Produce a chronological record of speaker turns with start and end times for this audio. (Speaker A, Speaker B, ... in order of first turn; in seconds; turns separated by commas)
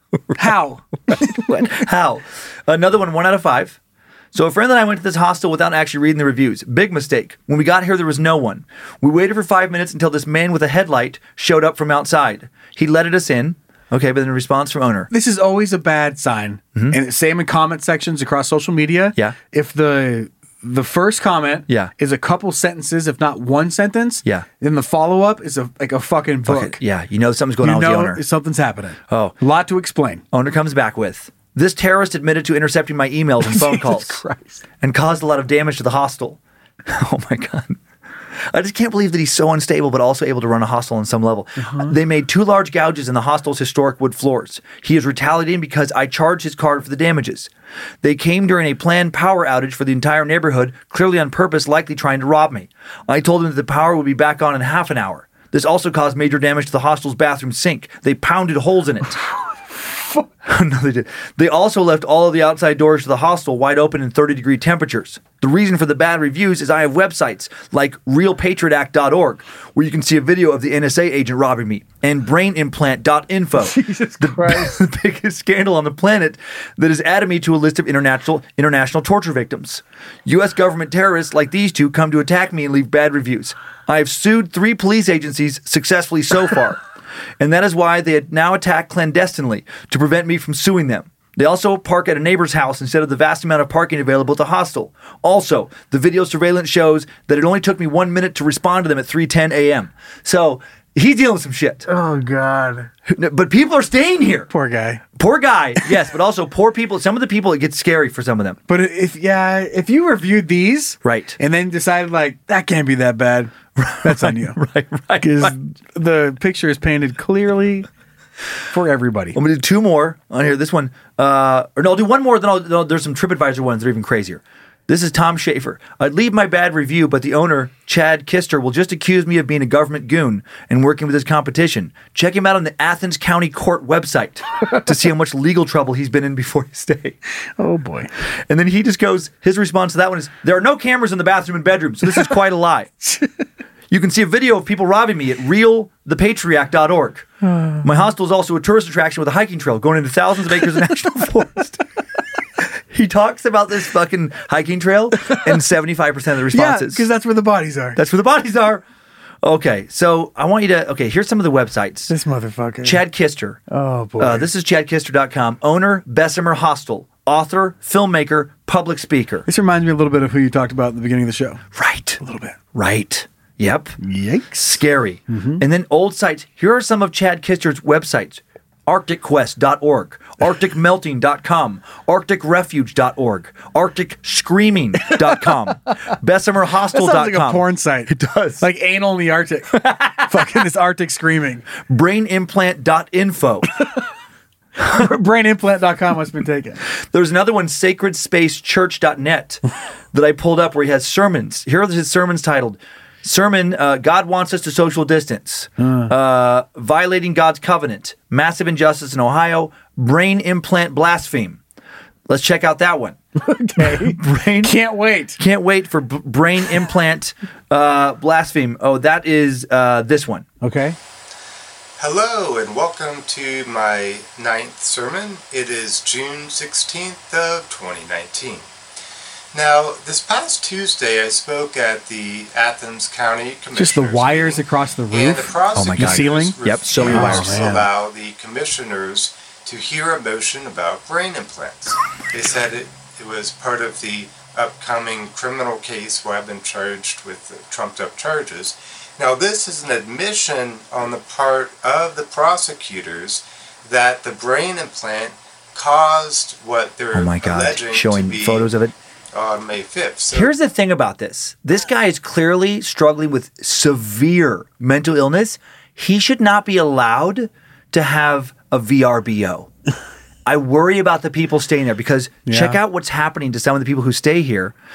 Speaker A: 0.3-1.7, Speaker B: 1.1-3.8, Speaker B: 4.3-15.1, Speaker A: 15.1-26.8, Speaker B: 26.5-28.2, Speaker A: 27.6-30.2, Speaker B: 29.1-29.4, Speaker B: 30.3-34.2, Speaker A: 33.4-34.6, Speaker B: 34.8-37.8, Speaker B: 38.5-47.5, Speaker A: 41.6-42.0, Speaker B: 48.0-59.2, Speaker B: 60.5-86.8, Speaker A: 73.6-74.8, Speaker B: 87.4-101.9, Speaker A: 101.9-102.9, Speaker B: 103.1-104.5, Speaker A: 104.5-105.0, Speaker B: 105.2-108.6, Speaker A: 108.7-114.6, Speaker B: 111.0-111.4, Speaker B: 113.8-115.6, Speaker A: 115.2-117.9, Speaker A: 118.7-119.4, Speaker B: 119.3-137.2, Speaker A: 137.6-138.1, Speaker B: 138.5-142.9, Speaker B: 143.9-147.3, Speaker A: 147.4-147.9, Speaker B: 147.8-151.8, Speaker B: 152.9-157.1, Speaker A: 156.5-158.0, Speaker B: 158.0-158.8, Speaker B: 159.4-162.1, Speaker A: 162.1-163.0, Speaker B: 162.8-163.6, Speaker A: 163.7-164.5, Speaker B: 164.2-169.5, Speaker A: 169.5-171.6, Speaker B: 171.8-172.2, Speaker A: 172.2-172.6, Speaker B: 172.7-174.0, Speaker A: 174.0-174.6, Speaker B: 174.5-188.7, Speaker A: 175.3-175.6, Speaker A: 185.1-185.5, Speaker A: 186.9-191.7, Speaker B: 189.8-190.4, Speaker B: 191.8-193.7, Speaker A: 194.8-196.8, Speaker B: 197.1-199.6, Speaker B: 200.1-211.6, Speaker A: 205.8-206.1, Speaker B: 212.3-213.2, Speaker A: 213.4-215.4, Speaker B: 213.8-214.8, Speaker B: 215.4-220.5, Speaker A: 220.6-221.0, Speaker C: 222.0-228.7, Speaker C: 229.5-258.7, Speaker A: 233.8-237.9, Speaker B: 235.8-237.7, Speaker B: 257.1-258.9, Speaker C: 259.3-260.5, Speaker B: 260.3-269.7, Speaker B: 270.5-274.7, Speaker A: 272.5-272.8